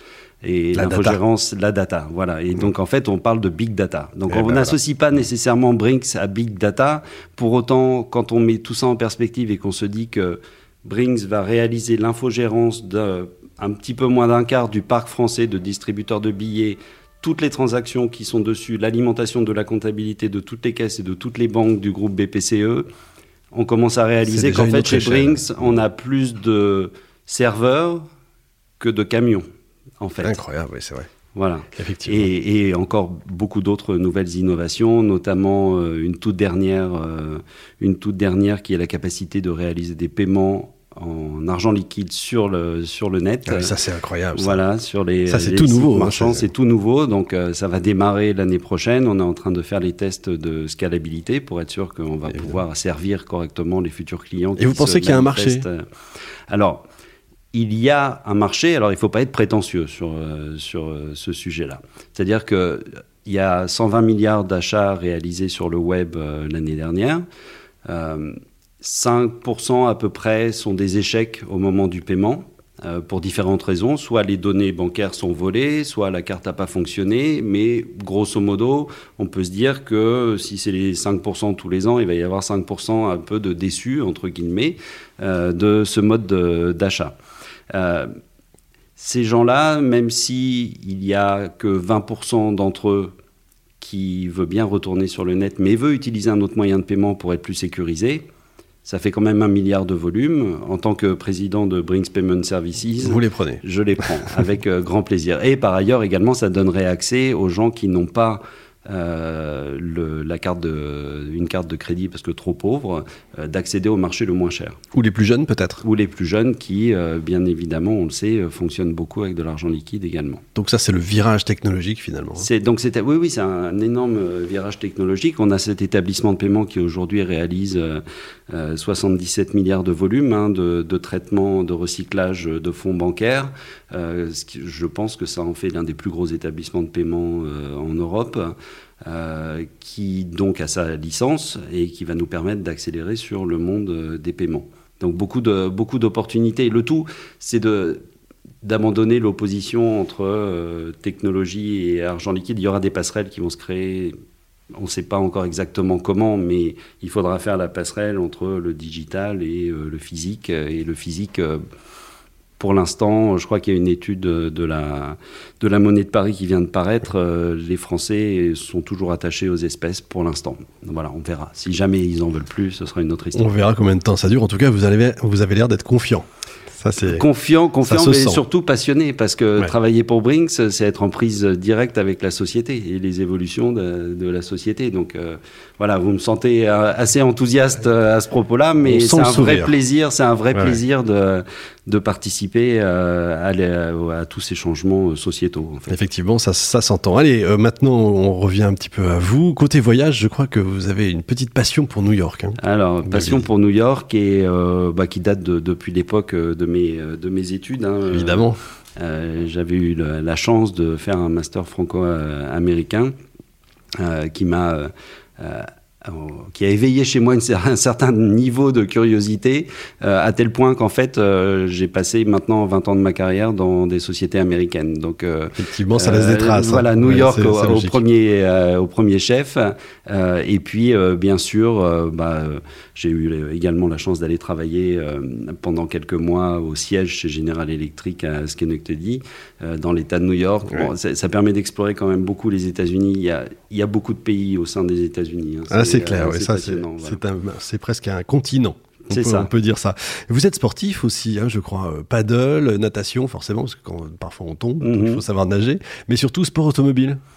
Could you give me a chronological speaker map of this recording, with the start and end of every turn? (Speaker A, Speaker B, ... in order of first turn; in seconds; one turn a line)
Speaker A: 0.4-22.9
Speaker B: 0.7-1.2
Speaker B: 4.3-4.8
Speaker A: 23.5-28.0
Speaker B: 24.2-25.8
Speaker A: 28.8-29.4
Speaker A: 30.0-30.4
Speaker B: 30.2-31.1
Speaker A: 31.3-43.7
Speaker B: 31.8-32.3
Speaker B: 43.5-44.6
Speaker A: 44.3-55.8
Speaker B: 45.3-46.5
Speaker B: 52.3-52.6
Speaker B: 54.6-55.6
Speaker A: 56.5-56.8
Speaker A: 57.5-67.2
Speaker A: 67.9-87.1
Speaker A: 87.7-88.1
Speaker A: 89.0-93.1
Speaker A: 93.8-98.2
Speaker A: 98.8-114.8
Speaker B: 103.0-104.1
Speaker B: 114.9-115.8
Speaker A: 115.8-120.4
Speaker B: 120.5-122.5
Speaker A: 122.4-148.0
Speaker A: 148.6-154.1
Speaker A: 154.8-161.6
Speaker A: 162.6-173.6
Speaker B: 173.3-177.2
Speaker A: 177.0-196.0
Speaker B: 177.8-178.4
Speaker B: 188.8-189.7
Speaker B: 190.5-190.8
Speaker B: 195.9-203.5
Speaker A: 202.6-213.1
Speaker B: 208.1-208.6
Speaker A: 214.0-247.2
Speaker B: 225.6-228.0
Speaker B: 245.7-257.2
Speaker A: 249.1-249.5
Speaker A: 254.8-255.2